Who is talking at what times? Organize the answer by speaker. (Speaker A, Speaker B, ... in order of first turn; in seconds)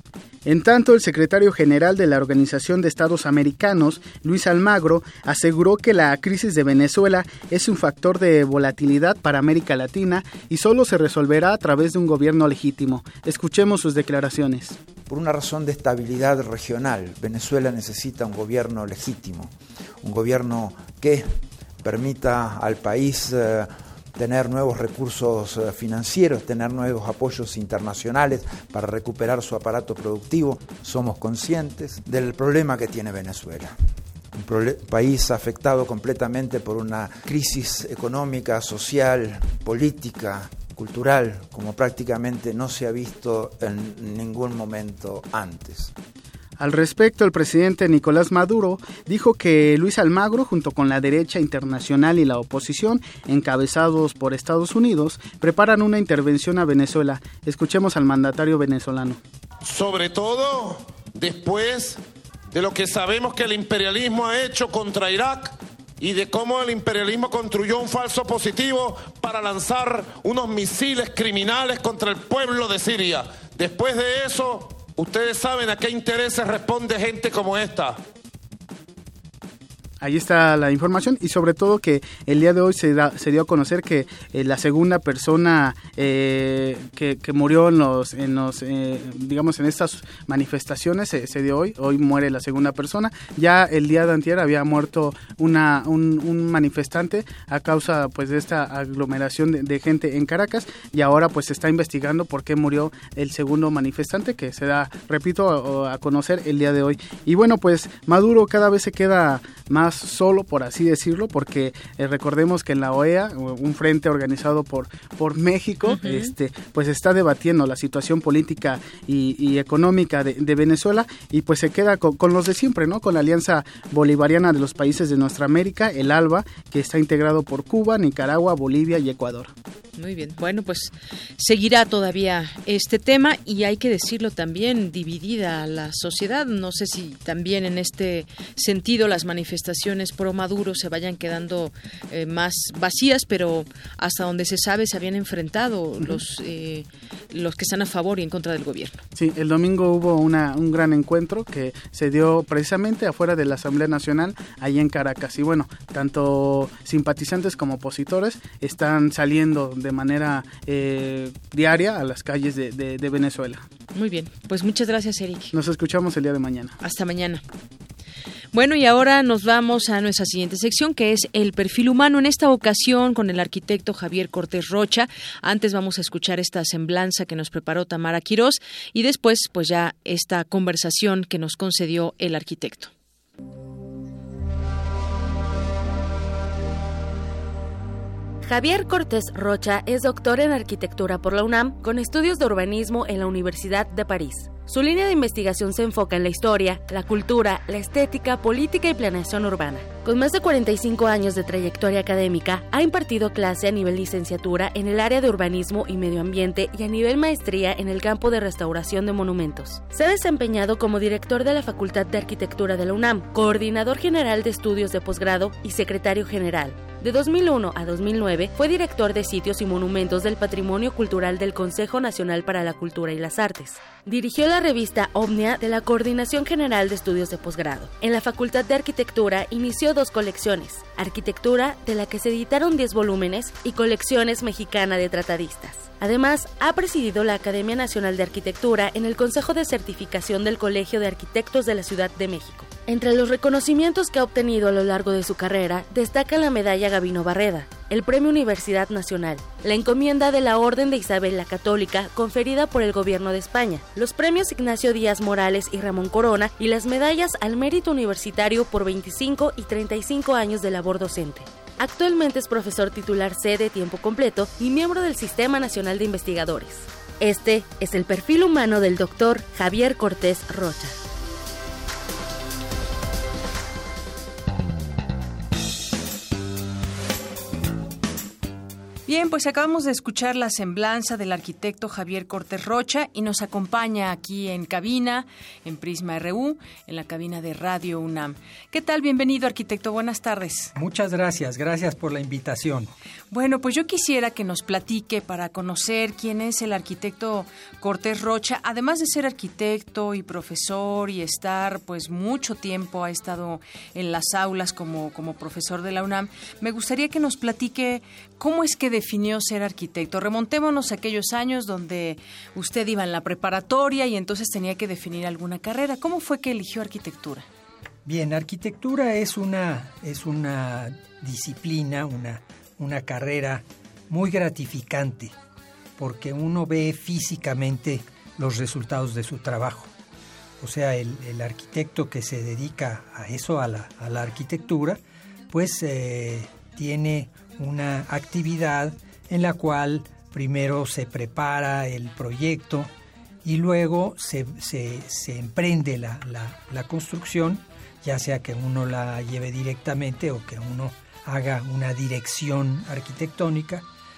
Speaker A: 0.4-14.8, 46.6-59.2, 80.0-129.5, 149.2-163.6, 165.5-166.8
Speaker B: 15.1-33.8, 34.3-45.9
Speaker C: 59.6-62.0, 62.5-78.0
Speaker D: 115.8-116.3, 130.0-149.0, 163.9-165.5, 166.8-167.4, 168.5-182.9, 279.1-290.7, 293.3-317.4
Speaker E: 188.4-271.0
Speaker F: 290.7-292.9, 318.1-325.3, 326.0-329.9, 330.6-342.9, 343.4-353.9